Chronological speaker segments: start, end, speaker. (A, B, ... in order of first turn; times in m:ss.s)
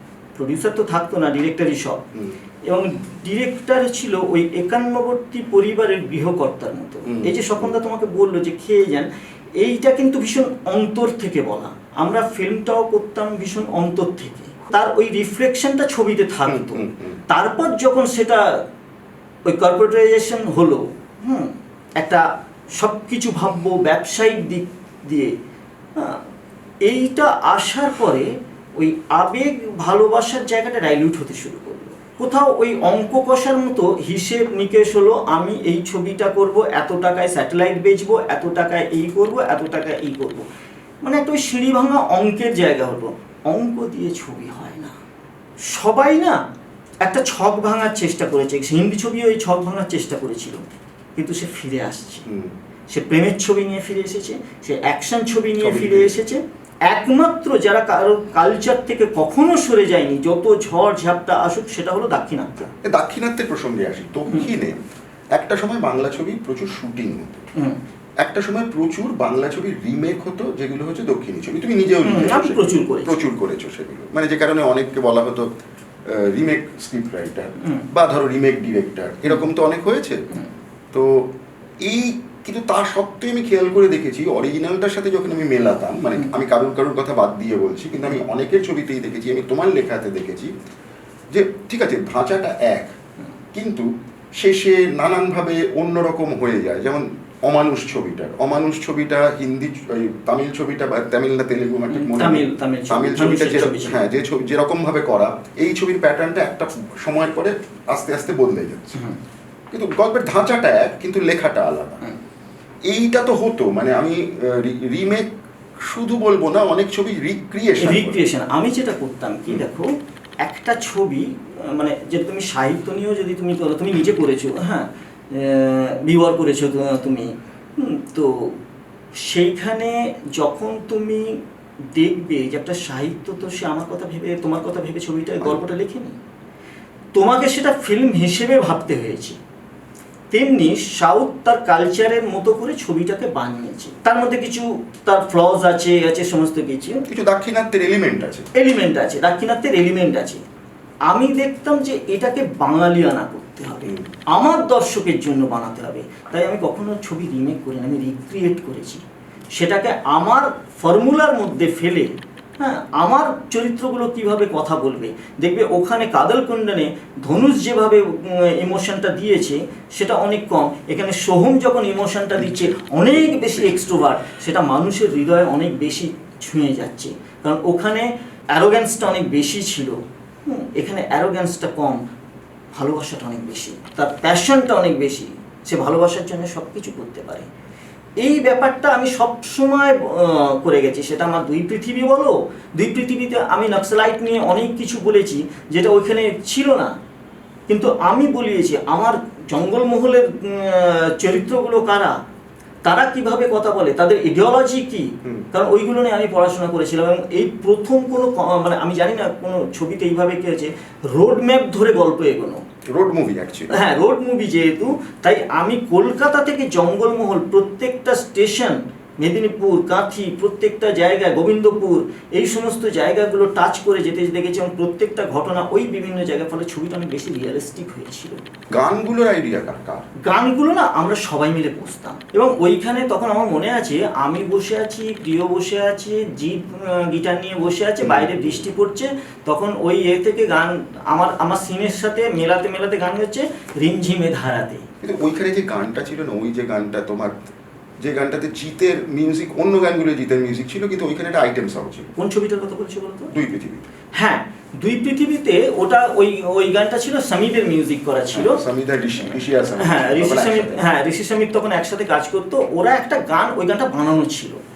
0:00.4-0:02.0 A
0:02.7-0:18.6 A
0:07.1-0:07.8 B
0:16.5-0:17.2 B
0:19.5-0:25.4 A
0:26.0-0:26.2 A
0:26.8-0:40.5 A
0:41.0-0:45.0 A
0:45.6-0:46.4 A
0:47.0-0:50.6 A
0:51.2-0:52.2 A
0:52.3-0:52.5 B
0:52.9-1:02.7 A
0:55.6-0:56.2 B
1:02.8-1:04.8 B
1:05.3-1:07.5 B
1:08.2-1:15.5 B
1:12.0-1:13.2 A
1:16.1-1:20.3 B
1:17.6-1:17.9 A
1:20.9-1:30.5 B
1:31.3-1:32.9 B
1:33.5-1:49.1 B
1:41.9-1:44.0 A
1:49.7-1:52.1 B
1:52.9-1:55.3 B
1:55.8-1:58.2 B
1:57.8-1:59.9 A
2:00.4-2:08.6 A
2:09.2-2:11.4 A
2:11.9-2:16.2 A
2:17.1-2:19.4 A
2:20.3-2:27.1 A
2:27.1-2:28.5 B
2:28.5-2:30.4 A
2:31.1-3:02.0 A
2:52.4-2:53.9 B
3:02.7-3:07.5 A
3:08.2-3:17.0 A
3:17.7-3:22.2 A
3:22.8-3:32.6 A
3:32.9-3:33.8 B
3:33.7-3:48.4 A
3:48.7-3:50.1 B
3:50.2-4:04.9 A
3:58.0-3:58.7 B
4:05.0-4:07.3 B
4:08.0-4:12.1 B
4:12.2-4:13.3 A
4:13.3-4:13.9 B
4:14.2-4:18.6 A
4:18.3-4:20.8 B
4:19.8-4:24.6 A